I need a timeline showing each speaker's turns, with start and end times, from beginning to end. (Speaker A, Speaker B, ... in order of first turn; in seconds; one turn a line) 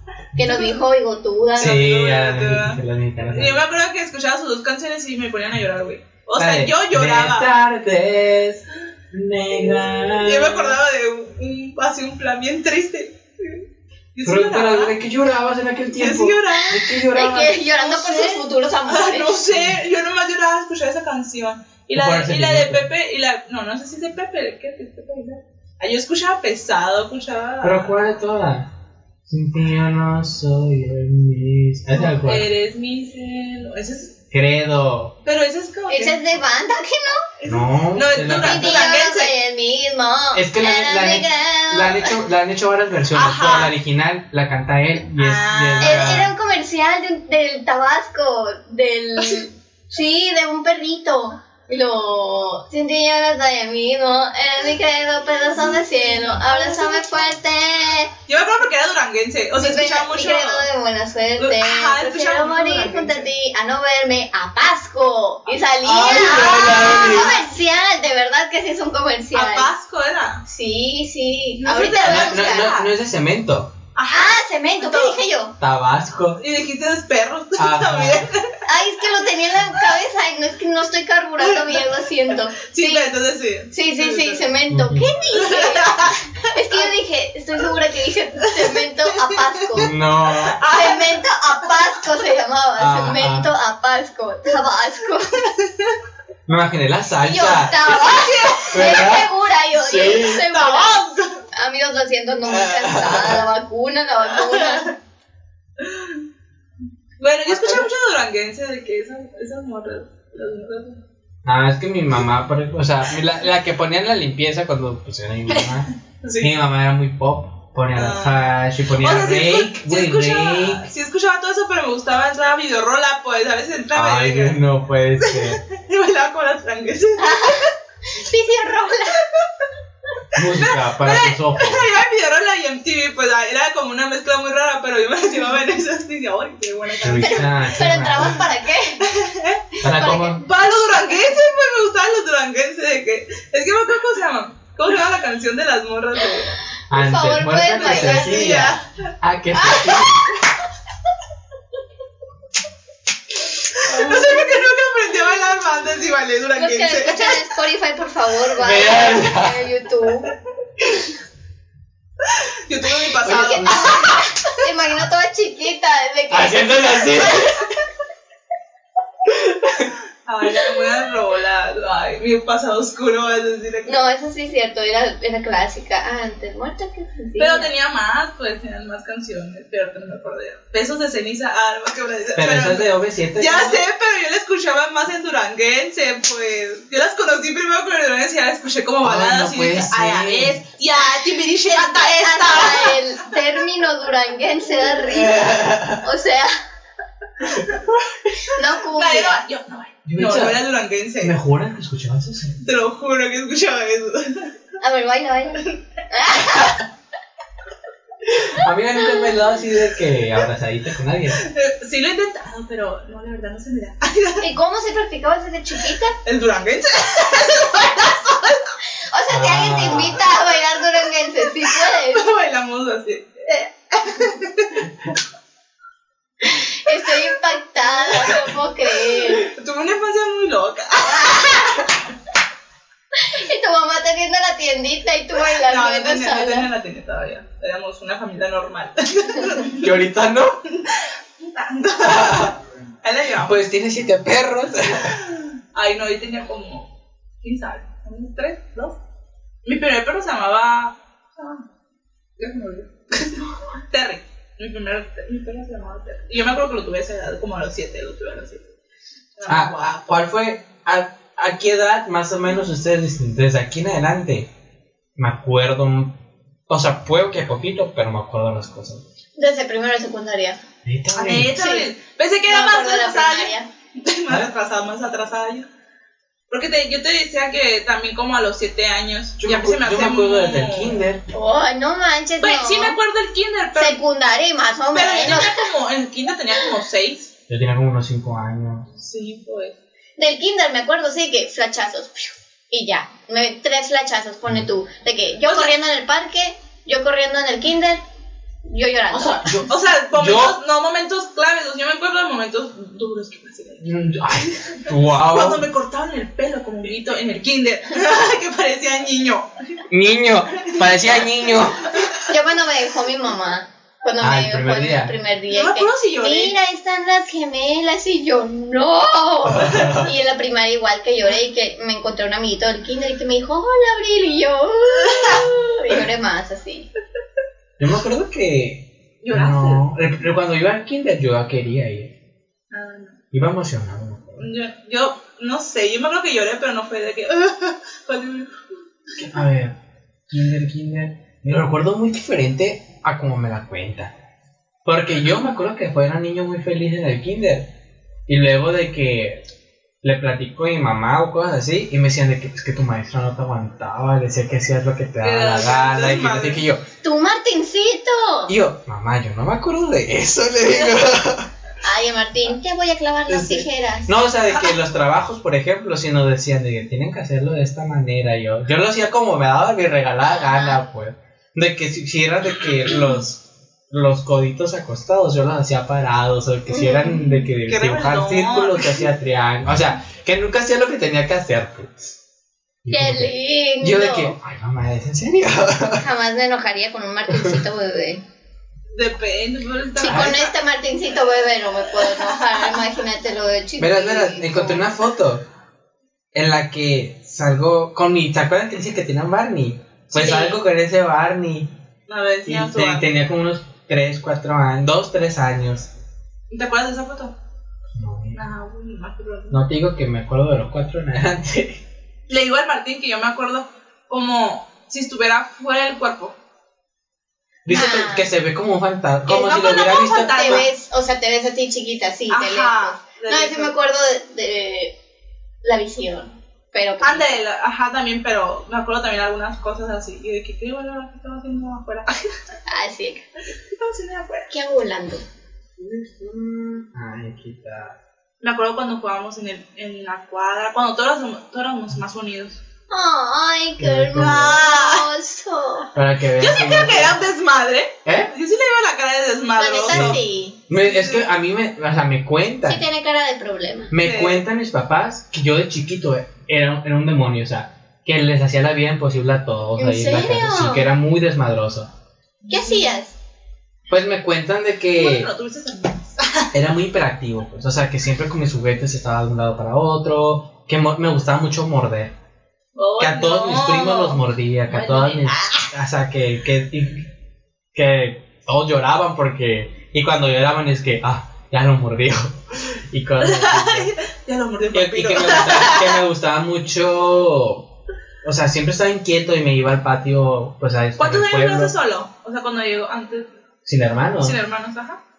Speaker A: 0.3-1.8
Speaker B: 0.4-0.8
Speaker C: 1.6-3.6
Speaker B: 1.6-7.5
Speaker C: 6.3-10.8
Speaker B: 10.1-14.9
Speaker C: 14.2-17.6
Speaker B: 15.9-28.1
Speaker A: 17.1-19.7
Speaker C: 21.9-22.9
Speaker C: 27.6-28.7
Speaker C: 29.3-32.5
Speaker B: 31.9-34.1
Speaker C: 34.3-35.1
Speaker B: 35.2-36.4
Speaker A: 35.9-37.2
Speaker B: 37.4-39.3
Speaker C: 37.4-38.9
Speaker A: 38.4-42.2
Speaker C: 40.3-46.3
Speaker B: 43.1-43.7
Speaker B: 45.2-46.2
Speaker A: 45.8-58.1
Speaker B: 55.6-57.3
Speaker B: 58.3-60.7
Speaker A: 59.6-69.7
Speaker B: 61.4-63.3
Speaker B: 65.5-67.4
Speaker C: 65.8-67.4
Speaker B: 69.3-70.4
Speaker A: 70.5-72.8
Speaker B: 71.6-72.9
Speaker C: 72.0-73.7
Speaker B: 73.9-75.2
Speaker A: 74.1-75.5
Speaker C: 75.6-76.4
Speaker B: 76.4-78.6
Speaker C: 77.6-78.3
Speaker A: 78.6-83.1
Speaker B: 81.4-81.9
Speaker B: 82.6-84.5
Speaker A: 83.7-89.9
Speaker C: 84.7-85.1
Speaker B: 85.3-86.9
Speaker B: 88.5-91.8
Speaker C: 89.8-90.6
Speaker A: 90.7-95.5
Speaker C: 92.8-93.5
Speaker B: 95.7-95.9
Speaker C: 96.5-98.1
Speaker A: 97.2-101.0
Speaker B: 97.8-99.2
Speaker C: 98.7-100.5
Speaker B: 99.9-101.4
Speaker A: 101.5-104.9
Speaker C: 102.5-103.4
Speaker B: 104.3-104.9
Speaker B: 105.8-106.2
Speaker B: 107.2-111.0
Speaker C: 107.5-107.9
Speaker C: 111.4-120.9
Speaker B: 115.5-116.5
Speaker B: 117.9-124.6
Speaker C: 123.9-125.6
Speaker B: 125.2-127.7
Speaker A: 127.2-129.2
Speaker C: 130.3-131.9
Speaker B: 130.5-137.8
Speaker C: 137.0-138.4
Speaker A: 137.2-139.1
Speaker B: 139.0-139.8
Speaker C: 139.8-140.4
Speaker A: 139.8-140.5
Speaker B: 140.4-146.6
Speaker C: 146.9-150.4
Speaker A: 146.9-148.7
Speaker B: 147.8-148.9
Speaker B: 149.6-150.0
Speaker B: 153.8-157.5
Speaker C: 153.9-154.5
Speaker A: 153.9-154.6
Speaker A: 156.6-160.3
Speaker C: 158.6-159.7
Speaker B: 162.3-164.5
Speaker C: 163.2-164.2
Speaker A: 163.2-167.5
Speaker C: 166.3-167.7
Speaker C: 169.3-169.9
Speaker B: 170.2-174.0
Speaker A: 173.8-177.7
Speaker B: 177.4-193.4
Speaker C: 182.3-183.8
Speaker C: 189.0-190.6
Speaker A: 191.7-196.6
Speaker C: 195.1-196.0
Speaker B: 197.5-197.8
Speaker A: 198.5-199.4
Speaker B: 198.9-201.3
Speaker C: 200.1-200.6
Speaker C: 201.2-202.6
Speaker B: 202.6-204.5
Speaker A: 204.8-206.8
Speaker C: 208.2-211.4
Speaker B: 211.3-214.5
Speaker A: 214.4-216.2
Speaker B: 216.2-218.7
Speaker A: 219.1-222.3
Speaker C: 219.3-220.2
Speaker B: 221.6-224.9
Speaker A: 226.4-229.5
Speaker B: 228.0-228.5
Speaker B: 229.0-231.9
Speaker A: 231.0-232.0
Speaker A: 233.2-236.7
Speaker B: 235.4-240.1
Speaker C: 239.8-240.6
Speaker B: 240.7-243.6
Speaker C: 242.0-242.6
Speaker C: 243.4-245.2
Speaker B: 244.9-246.9
Speaker B: 247.4-249.0
Speaker B: 249.6-251.7
Speaker B: 252.4-258.6
Speaker B: 259.4-260.1
Speaker C: 259.5-264.5
Speaker C: 265.1-269.0
Speaker A: 269.4-270.6
Speaker C: 270.8-271.6
Speaker B: 271.1-275.7
Speaker A: 271.5-271.9
Speaker A: 272.4-273.7
Speaker B: 276.5-281.0
Speaker C: 279.4-281.2
Speaker A: 281.3-283.0
Speaker B: 282.4-284.0
Speaker A: 283.7-285.6
Speaker B: 284.9-287.3
Speaker C: 287.5-288.9
Speaker B: 288.9-289.8
Speaker A: 290.2-298.0
Speaker B: 295.5-295.7
Speaker A: 298.6-299.6
Speaker C: 299.1-300.6
Speaker B: 299.7-309.8
Speaker C: 303.8-305.6
Speaker C: 309.9-312.0
Speaker B: 310.5-311.3
Speaker A: 312.2-326.9
Speaker C: 314.2-315.1
Speaker B: 315.5-316.5
Speaker C: 319.4-320.1
Speaker C: 327.8-332.1
Speaker B: 329.2-329.8
Speaker B: 332.7-333.2
Speaker C: 333.3-334.5
Speaker B: 334.4-338.5
Speaker C: 339.2-339.8
Speaker C: 340.3-344.1
Speaker C: 344.8-347.7
Speaker C: 348.3-349.4
Speaker C: 350.0-356.8
Speaker B: 355.2-356.6
Speaker A: 357.0-358.5
Speaker C: 358.5-361.5
Speaker A: 361.8-364.7
Speaker C: 363.3-382.1
Speaker A: 370.3-370.8
Speaker A: 376.7-377.4
Speaker B: 377.6-379.1
Speaker C: 382.8-386.0
Speaker A: 382.9-384.3
Speaker A: 385.9-388.2
Speaker C: 387.3-387.6
Speaker B: 388.9-390.5
Speaker A: 390.0-394.8
Speaker C: 390.0-390.4
Speaker B: 391.9-392.8
Speaker C: 393.8-395.4
Speaker C: 396.3-401.7
Speaker A: 400.1-400.6
Speaker B: 402.1-403.1
Speaker C: 402.4-405.9
Speaker B: 406.5-407.3
Speaker C: 407.9-408.4
Speaker B: 408.3-409.7
Speaker C: 409.5-411.8
Speaker B: 412.3-416.3
Speaker C: 417.6-420.6
Speaker A: 417.7-418.3
Speaker B: 419.2-420.7
Speaker A: 419.9-424.9
Speaker B: 422.3-423.7
Speaker A: 425.6-427.4
Speaker B: 427.0-432.4
Speaker A: 432.7-433.2
Speaker B: 433.5-434.5
Speaker A: 434.5-435.2
Speaker C: 435.8-438.0
Speaker B: 438.4-442.6
Speaker A: 442.9-445.9
Speaker C: 443.8-444.6
Speaker B: 444.2-445.1
Speaker C: 445.9-447.2
Speaker B: 446.4-450.2
Speaker C: 448.1-448.3
Speaker A: 449.6-450.6
Speaker C: 449.9-452.8
Speaker B: 450.7-451.2
Speaker A: 452.6-453.9
Speaker C: 453.9-461.9
Speaker B: 453.9-454.4
Speaker A: 459.8-460.9
Speaker B: 462.4-463.0
Speaker A: 462.5-463.1
Speaker C: 463.9-465.3
Speaker B: 464.9-466.5
Speaker C: 466.5-472.1
Speaker B: 472.8-475.7
Speaker C: 473.0-477.1
Speaker C: 477.7-483.9
Speaker B: 483.2-486.0
Speaker C: 484.7-487.7
Speaker C: 488.2-491.7
Speaker B: 491.0-493.3
Speaker C: 493.6-494.4
Speaker B: 494.2-495.0